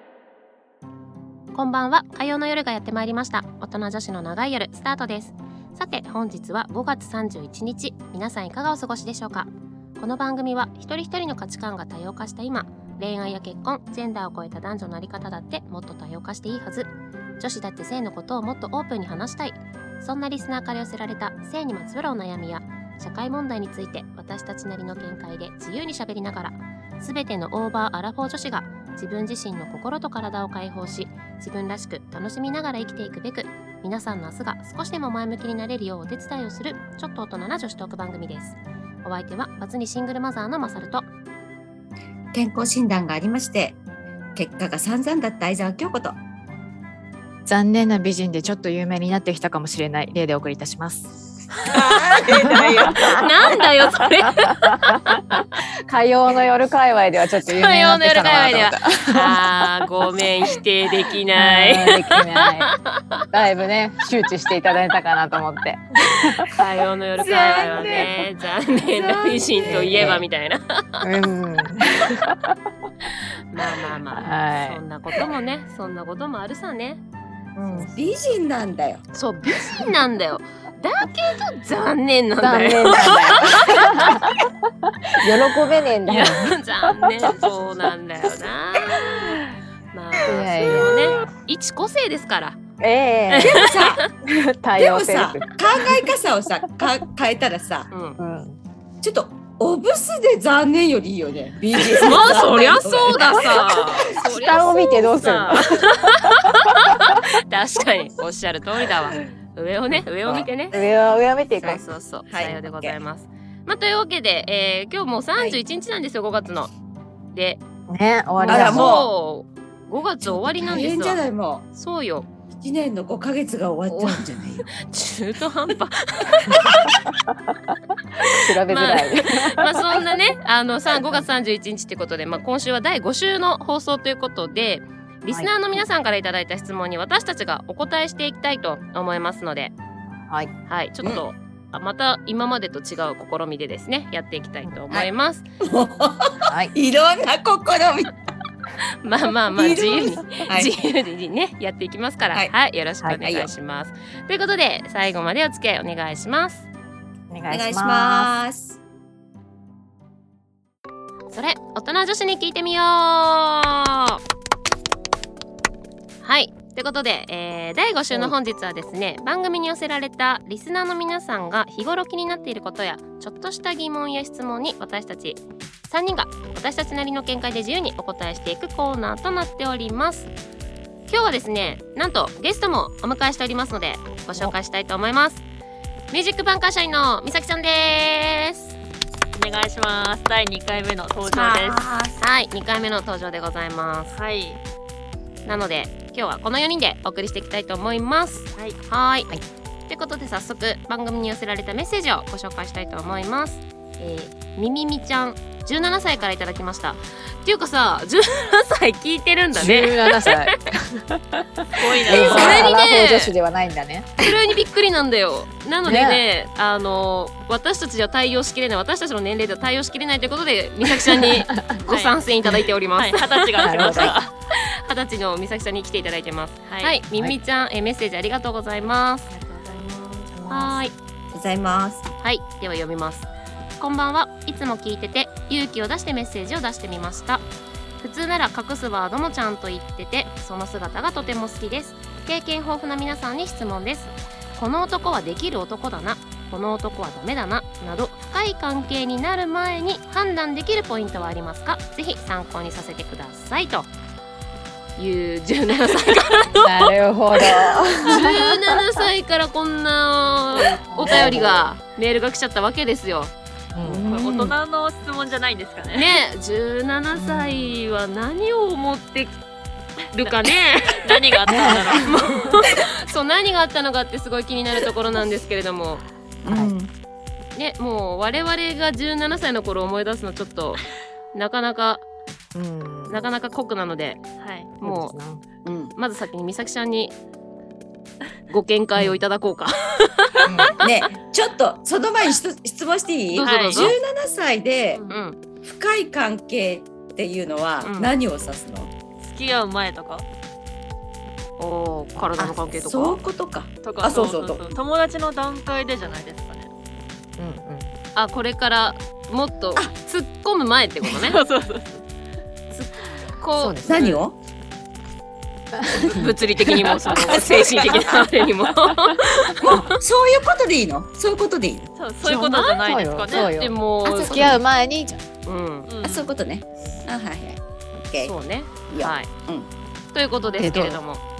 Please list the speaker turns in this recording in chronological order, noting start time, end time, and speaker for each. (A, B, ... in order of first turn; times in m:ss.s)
0:01.5-0:41.1 A
0:42.3-0:43.8 B
0:44.4-0:46.2 B
0:47.5-0:51.1 C
0:51.6-0:53.6 B
0:52.4-0:53.1 C
0:53.0-0:55.6 A
0:54.2-0:59.6 C
0:57.5-1:03.2 A
1:01.4-1:02.7 C
1:03.3-1:06.5 C
1:06.5-1:11.1 A
1:07.2-1:08.1 B
1:07.3-1:08.1 C
1:08.8-1:10.2 B
1:09.7-1:10.2 C
1:11.0-1:12.9 C
1:13.5-1:17.0 A
1:14.2-1:14.8 C
1:17.6-1:17.9 C
1:17.6-1:17.9 A
1:17.9-1:19.0 B
1:19.1-1:24.2 A
1:22.4-1:27.5 C
1:26.1-1:32.6 A
1:30.2-1:31.3 C
1:32.8-1:36.0 C
1:33.3-1:34.1 A
1:33.4-1:34.1 B
1:34.8-1:37.9 B
1:37.9-1:38.2 A
1:38.2-1:38.6 C
1:39.0-1:44.1 B
1:42.0-1:50.8 A
1:43.2-1:47.2 C
1:50.0-1:51.8 C
1:51.6-1:56.7 A
1:52.3-1:53.0 B
1:57.3-1:57.6 A
1:57.9-1:58.9 C
1:58.4-2:01.2 A
1:58.4-1:59.1 B
2:00.2-2:01.7 B
2:01.7-2:02.3 A
2:02.5-2:04.7 B
2:04.7-2:06.8 A
2:06.5-2:07.7 C
2:08.2-2:19.7 A
2:08.2-2:09.7 C
2:20.2-2:20.5 C
2:20.7-2:25.4 A
2:25.6-2:28.1 B
2:26.5-2:26.7 C
2:29.0-2:36.7 A
2:29.6-2:30.7 B
2:33.2-2:33.5 B
2:37.3-2:38.3 C
2:37.5-2:38.8 B
2:41.3-2:44.2 A
2:46.2-3:00.3 A
3:01.1-3:05.4 A
3:06.1-3:08.8 A
3:09.3-3:11.9 D
3:11.3-3:12.2 B
3:12.2-3:14.2 A
3:14.1-3:14.6 D
3:15.4-3:19.3 A
3:19.9-3:30.5 A
3:29.5-3:34.4 C
3:31.8-3:32.7 D
3:32.1-3:33.3 A
3:34.2-3:49.3 A
3:35.8-3:36.2 C
3:40.9-3:41.6 C
3:41.9-3:42.2 D
3:43.0-3:44.3 D
3:43.6-3:44.2 C
3:46.7-3:47.0 D
3:49.5-3:50.3 B
3:50.3-3:50.8 C
3:50.5-3:51.0 A
3:51.3-3:52.1 B
3:52.2-3:53.3 A
3:53.8-3:57.4 A
3:58.0-4:13.9 A
4:15.0-4:23.3 A
4:16.6-4:18.8 C
4:20.6-4:21.7 C
4:21.1-4:21.4 B
4:23.7-4:24.1 C
4:23.9-4:24.5 B
4:23.9-4:26.2 D
4:25.9-4:29.4 A
4:27.2-4:27.7 C
4:30.1-4:36.0 A
4:30.2-4:32.3 D
4:31.5-4:32.6 C
4:32.6-4:32.9 B
4:36.4-4:36.9 B
4:36.5-4:36.7 C
4:37.6-4:40.8 A
4:41.3-4:42.0 A
4:42.6-4:43.2 C
4:43.1-4:44.2 A
4:44.4-4:44.7 D
4:44.8-4:45.2 A
4:44.8-4:45.4 C
4:45.6-4:45.9 B
4:45.9-4:47.1 A
4:48.5-4:50.9 A
4:50.5-4:50.8 C
4:50.8-4:55.0 B
4:53.3-4:54.0 A
4:53.4-4:54.0 D
4:54.9-4:55.2 D
4:55.1-4:55.4 A
4:55.6-4:58.9 B
4:57.8-4:58.1 A
4:59.2-5:00.2 D
5:01.6-5:03.2 A
5:02.4-5:04.8 B
5:03.8-5:06.7 D
5:07.4-5:07.9 C
5:08.2-5:11.4 A
5:11.0-5:12.0 D
5:12.7-5:14.2 A
5:13.6-5:14.1 C
5:13.8-5:14.4 B
5:15.8-5:19.9 C
5:16.0-5:19.9 A
5:17.2-5:18.2 B
5:19.6-5:21.9 B
5:22.0-5:23.6 D
5:22.2-5:24.6 A
5:22.8-5:25.2 C
5:24.0-5:24.6 B
5:25.4-5:25.9 A
5:25.9-5:26.4 D
5:26.0-5:28.3 B
5:28.2-5:29.3 A
5:28.9-5:29.7 B
5:30.1-5:31.2 A
5:30.6-5:31.0 C